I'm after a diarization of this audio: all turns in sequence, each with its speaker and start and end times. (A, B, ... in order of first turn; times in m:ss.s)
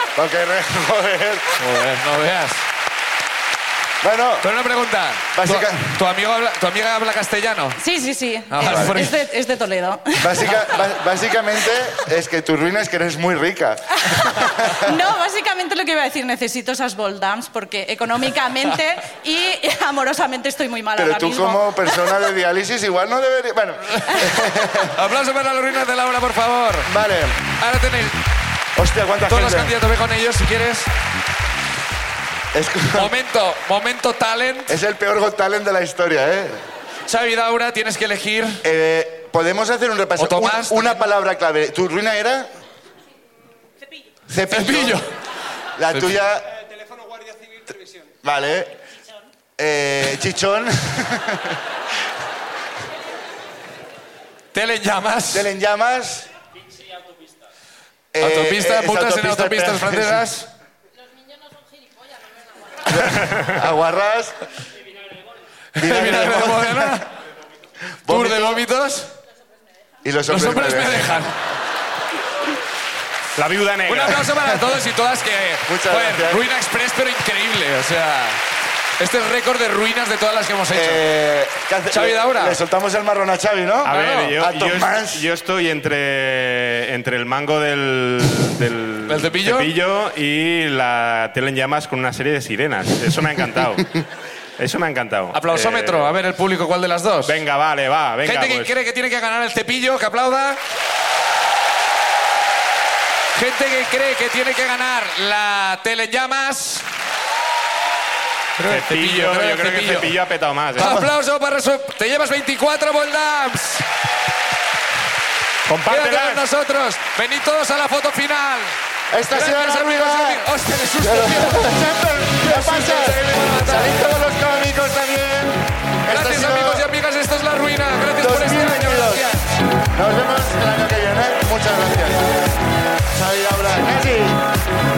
0:00.2-0:01.5 A
0:01.6-0:02.6 B
0:04.0-0:04.4 A
0:04.4-0:07.8 B
0:05.3-0:05.9 A
0:07.8-0:10.4 C
0:08.5-0:09.3 B
0:08.6-0:09.1 A
0:10.2-0:14.9 A
0:14.0-0:22.2 C
0:21.0-0:25.0 A
0:24.9-0:26.9 B
0:26.9-0:27.4 A
0:27.6-0:28.2 B
0:28.8-0:29.8 A
0:29.3-0:30.9 B
0:32.5-0:33.1 A
0:33.0-0:34.8 B
0:34.7-0:36.6 A
0:37.1-0:38.6 B
0:38.6-0:42.5 A
0:40.2-0:40.9 B
0:44.3-0:45.0 A
0:44.5-0:45.1 B
0:45.8-0:46.5 A
0:48.2-0:48.8 A
0:49.6-0:51.6 A
0:54.5-0:55.5 B
0:55.3-0:56.3 A
0:58.1-1:00.3 A
0:58.2-1:00.5 B
1:02.8-1:04.4 A
1:05.8-1:07.1 B
1:05.8-1:07.0 A
1:08.0-1:08.6 A
1:08.1-1:09.1 B
1:10.0-1:11.2 A
1:10.3-1:11.4 B
1:13.4-1:14.2 D
1:13.9-1:18.4 B
1:15.7-1:16.5 A
1:19.0-1:21.0 B
1:20.7-1:25.2 A
1:21.9-1:22.6 B
1:23.8-1:33.9 D
1:23.9-1:24.4 B
1:29.1-1:29.7 B
1:34.6-1:36.1 D
1:35.3-1:37.4 B
1:37.2-1:38.7 D
1:38.2-1:40.6 B
1:43.4-1:46.9 B
1:48.6-1:50.1 B
1:48.6-1:51.0 D
1:50.8-1:53.8 B
1:50.8-1:51.1 A
1:55.7-1:56.4 D
1:55.9-1:58.8 B
1:59.1-2:06.9 A
1:59.3-2:04.0 B
2:06.1-2:09.4 B
2:08.2-2:09.3 A
2:09.9-2:12.4 A
2:13.1-2:14.4 A